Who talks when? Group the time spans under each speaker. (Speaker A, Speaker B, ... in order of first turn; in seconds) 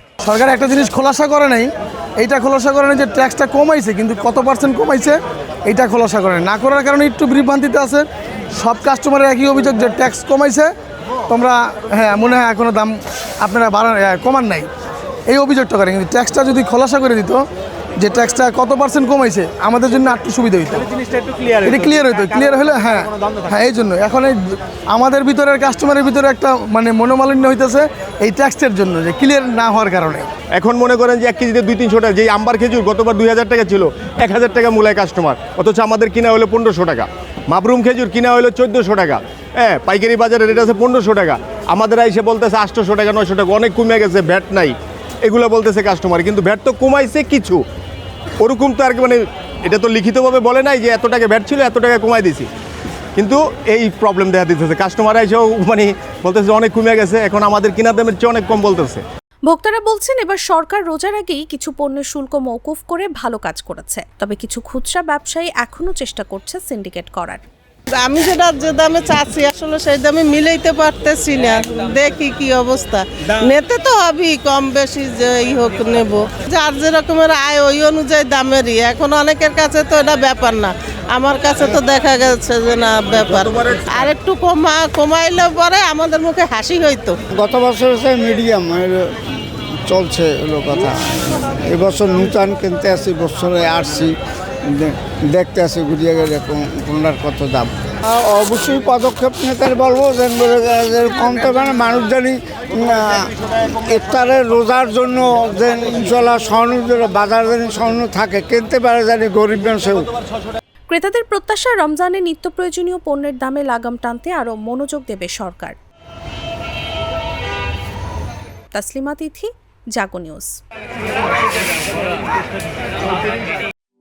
Speaker A: 0.2-10.7, 11.3-14.7, 15.3-17.4, 18.0-20.8, 21.5-30.3
Speaker B: 30.6-47.6, 48.4-52.5, 53.1-59.0
Speaker C: 59.5-67.4, 110.9-115.8, 118.7-120.5
Speaker D: 68.0-87.1
Speaker E: 87.3-88.9, 89.8-94.1, 94.7-103.3, 103.8-110.1